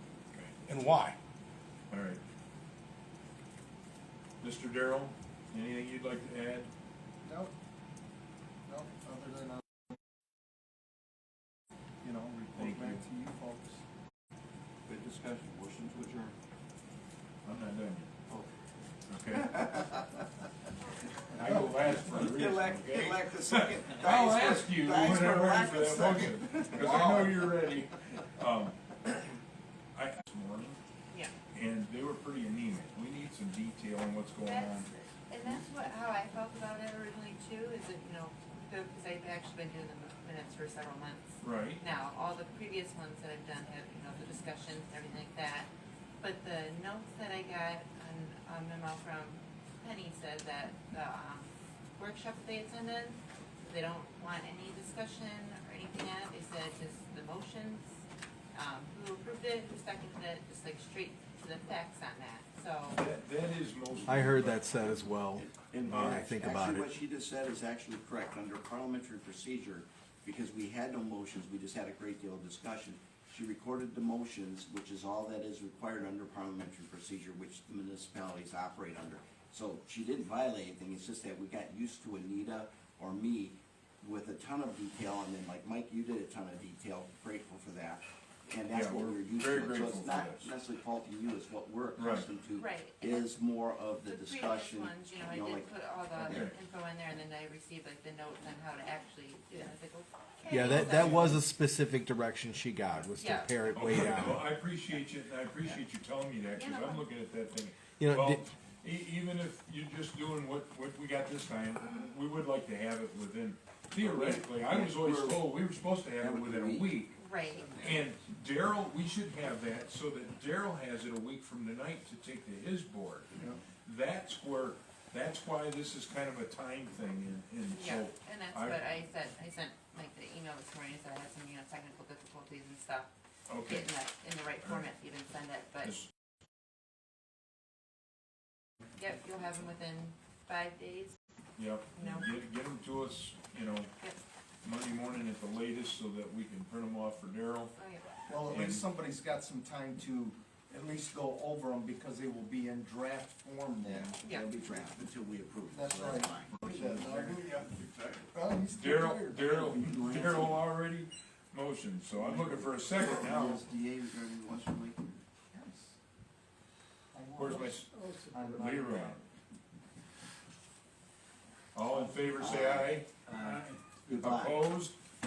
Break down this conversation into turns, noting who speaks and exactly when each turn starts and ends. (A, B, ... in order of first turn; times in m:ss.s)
0:00.6-0:01.2 A
0:01.9-0:02.2 B
0:04.4-0:06.7 B
0:07.2-0:07.5 A
0:08.7-0:09.6 A
0:12.0-0:13.8 A
0:12.5-0:13.0 B
0:14.8-0:16.4 C
0:17.4-0:18.1 B
0:19.1-0:19.6 B
0:19.3-0:20.2 C
0:21.3-0:29.2 B
0:21.7-0:27.7 C
0:29.9-0:30.8 B
0:31.1-0:31.3 D
0:31.5-0:34.9 B
0:34.4-0:58.0 D
0:41.4-0:41.8 B
0:58.5-1:03.0 D
1:02.9-1:05.1 B
1:04.0-1:06.9 E
1:05.3-1:36.5 C
1:05.9-1:06.3 B
1:28.7-1:30.5 B
1:32.0-1:32.3 B
1:32.6-1:33.3 D
1:34.0-1:41.4 D
1:36.3-1:36.5 B
1:40.5-1:44.5 E
1:40.5-1:41.4 B
1:43.2-1:44.0 D
1:43.7-1:57.2 B
1:46.5-1:47.1 D
1:48.0-1:48.4 E
1:54.0-1:55.5 C
1:56.2-1:57.0 C
1:57.2-1:57.8 D
1:57.6-1:58.0 C
1:57.8-2:08.8 B
2:07.7-2:13.1 D
2:13.5-2:13.9 B
2:13.6-2:15.9 D
2:19.0-2:21.2 D
2:21.6-2:23.9 B
2:21.9-2:22.3 D
2:24.6-2:27.7 B
2:27.7-2:28.0 D
2:28.3-2:34.1 A
2:28.5-2:28.8 B
2:33.8-2:38.3 C
2:34.2-2:34.5 D
2:35.7-2:37.7 A
2:38.3-2:40.0 A
2:38.7-2:43.6 B
2:39.3-2:40.7 C
2:42.1-2:45.2 C
2:45.5-2:45.9 A
2:47.1-2:49.2 A
2:47.3-2:49.2 B
2:51.7-2:53.1 B
2:52.4-2:54.6 C
2:54.2-2:55.0 B